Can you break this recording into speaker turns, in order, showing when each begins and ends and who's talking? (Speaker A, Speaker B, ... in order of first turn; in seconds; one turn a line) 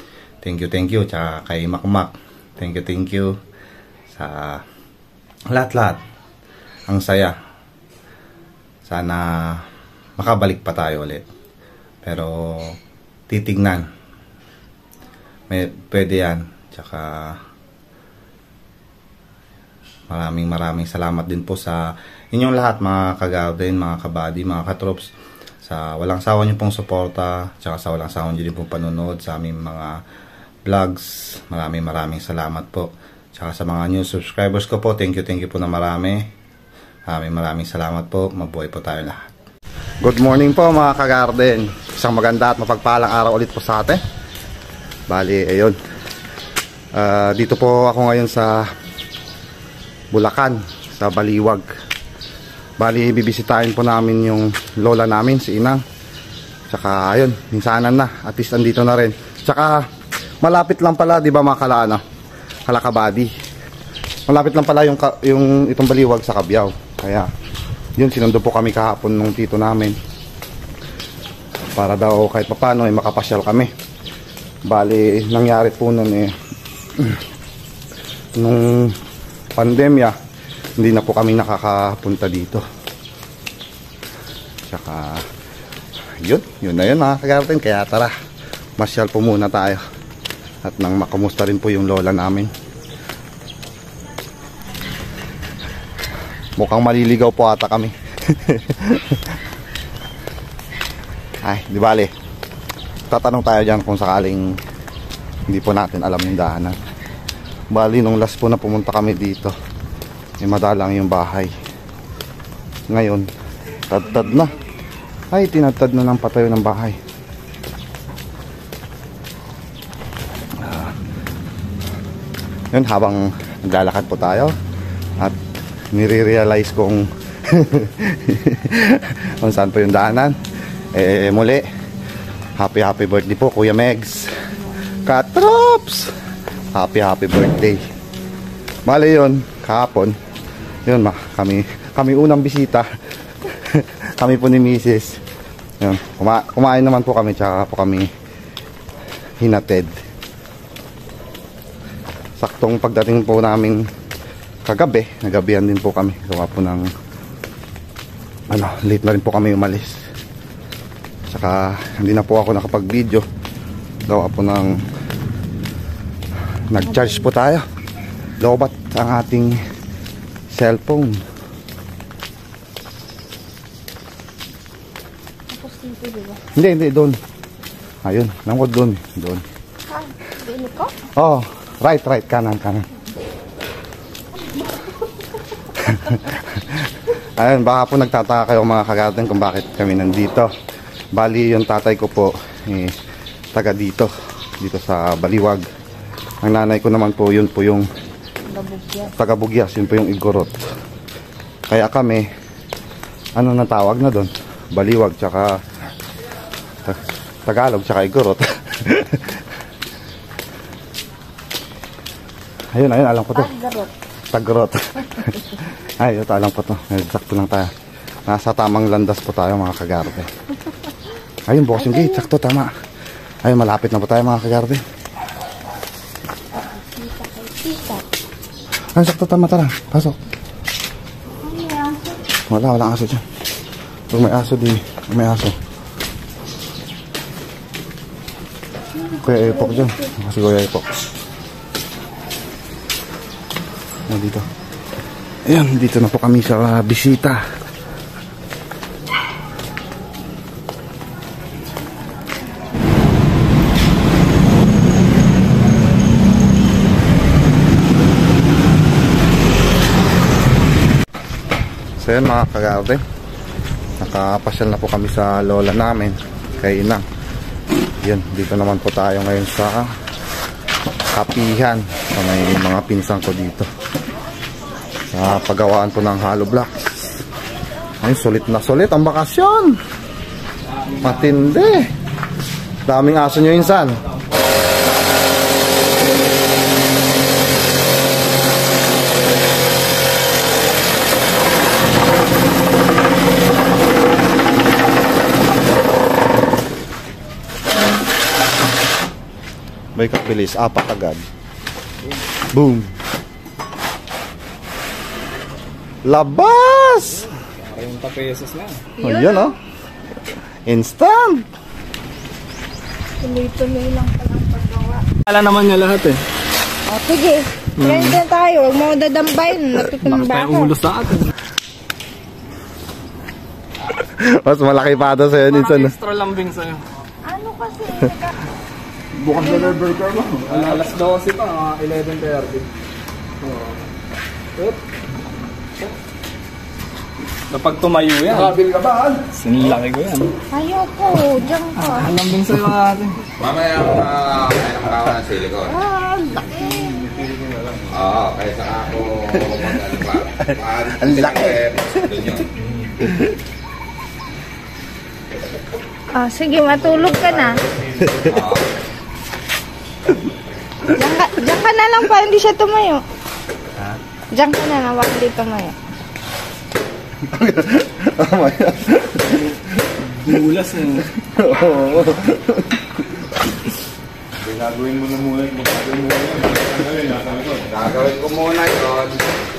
Speaker A: 0.4-3.3
Speaker A: 4.1-4.6
Speaker A: 5.5-6.0
Speaker A: 6.9-7.3
Speaker A: 8.8-9.6
Speaker A: 10.2-11.2
Speaker A: 12.0-12.8
Speaker A: 13.3-13.8
Speaker A: 15.5-17.4
Speaker A: 20.1-25.1
Speaker A: 25.6-30.0
Speaker A: 30.6-36.2
Speaker A: 37.1-39.2
Speaker A: 40.0-44.0
Speaker A: 45.1-45.8
Speaker A: 46.9-48.7
Speaker A: 50.1-51.6
Speaker A: 52.8-55.8
Speaker A: 56.7-59.8
Speaker A: 60.4-62.0
Speaker A: 62.7-63.3
Speaker A: 64.3-67.3
Speaker A: 68.0-70.0
Speaker A: 71.8-73.7
Speaker A: 74.7-76.3
Speaker A: 78.3-78.9
Speaker A: 79.5-80.2
Speaker A: 80.8-82.6
Speaker A: 84.7-85.2
Speaker A: 86.2-88.1
Speaker A: 88.8-89.8
Speaker A: 90.6-92.5
Speaker A: 96.6-99.3
Speaker A: 101.4-102.1
Speaker A: 103.1-104.6
Speaker A: 105.5-106.8
Speaker A: 107.7-109.5
Speaker A: 110.4-111.5
Speaker A: 112.9-113.3
Speaker A: 113.9-114.5
Speaker A: 115.3-117.0
Speaker A: 120.6-120.9
Speaker A: 122.7-124.5
Speaker A: 125.9-130.3
Speaker A: 130.9-131.6
Speaker A: 132.6-134.3
Speaker A: 135.0-136.1
Speaker A: 136.7-137.8
Speaker A: 138.8-140.1
Speaker A: 140.8-142.9
Speaker A: 143.4-145.2
Speaker A: 145.8-148.1
Speaker A: 149.4-149.9
Speaker A: 152.4-153.8
Speaker A: 154.7-156.9
Speaker A: 158.5-160.0
Speaker A: 161.3-163.2
Speaker A: 164.1-164.7
Speaker A: 166.7-167.7
Speaker B: 166.8-167.2
Speaker A: 168.4-169.6
Speaker A: 170.5-171.2
Speaker B: 175.5-176.4
Speaker A: 176.5-177.2
Speaker A: 178.0-179.4
Speaker B: 179.9-180.9
Speaker A: 181.2-182.8
Speaker A: 185.8-186.8
Speaker A: 187.4-190.5
Speaker A: 191.1-192.9
Speaker A: 193.5-195.6
Speaker A: 196.4-197.9
Speaker B: 198.5-199.1
Speaker A: 199.1-200.6
Speaker A: 201.7-202.2
Speaker A: 203.3-205.6
Speaker A: 206.8-209.4
Speaker A: 212.7-213.5
Speaker B: 213.3-213.9
Speaker A: 214.3-217.7
Speaker A: 218.3-220.3
Speaker A: 221.5-222.7
Speaker B: 221.8-222.2
Speaker A: 223.4-224.8
Speaker B: 226.8-228.0
Speaker A: 228.9-230.2
Speaker B: 231.4-232.1
Speaker A: 232.5-233.2
Speaker A: 234.1-235.6
Speaker A: 239.2-240.9
Speaker B: 239.6-239.9
Speaker A: 244.1-244.4
Speaker A: 245.4-247.4
Speaker A: 262.0-263.0
Speaker A: 264.0-267.0
Speaker A: 268.0-269.9
Speaker A: 271.1-273.7
Speaker A: 275.1-277.2
Speaker A: 278.0-279.8
Speaker C: 280.7-281.3
Speaker A: 281.0-281.9
Speaker A: 282.9-284.0
Speaker A: 299.9-301.2
Speaker A: 302.5-302.9
Speaker A: 306.0-307.2
Speaker C: 307.6-308.8
Speaker A: 309.0-309.5
Speaker B: 309.0-309.5
Speaker A: 310.7-311.5
Speaker B: 313.2-315.0
Speaker C: 315.3-316.2
Speaker B: 316.9-320.7
Speaker C: 317.8-318.2
Speaker C: 320.0-321.3
Speaker A: 324.0-325.9
Speaker C: 325.5-326.8
Speaker B: 327.2-328.3
Speaker C: 329.2-332.7
Speaker B: 329.3-329.8
Speaker C: 333.4-333.8
Speaker C: 337.5-338.6
Speaker C: 339.3-340.3
Speaker B: 340.5-342.1
Speaker C: 341.8-343.2
Speaker D: 343.4-345.7
Speaker A: 345.6-346.9
Speaker D: 347.9-352.4
Speaker A: 349.6-349.9
Speaker A: 350.4-351.6
Speaker B: 356.1-357.6
Speaker A: 358.0-358.4
Speaker D: 358.2-358.6
Speaker B: 360.9-363.0
Speaker B: 364.3-365.7
Speaker A: 367.2-369.6
Speaker C: 370.1-371.1
Speaker A: 371.2-373.2
Speaker A: 374.6-376.2
Speaker A: 377.7-379.1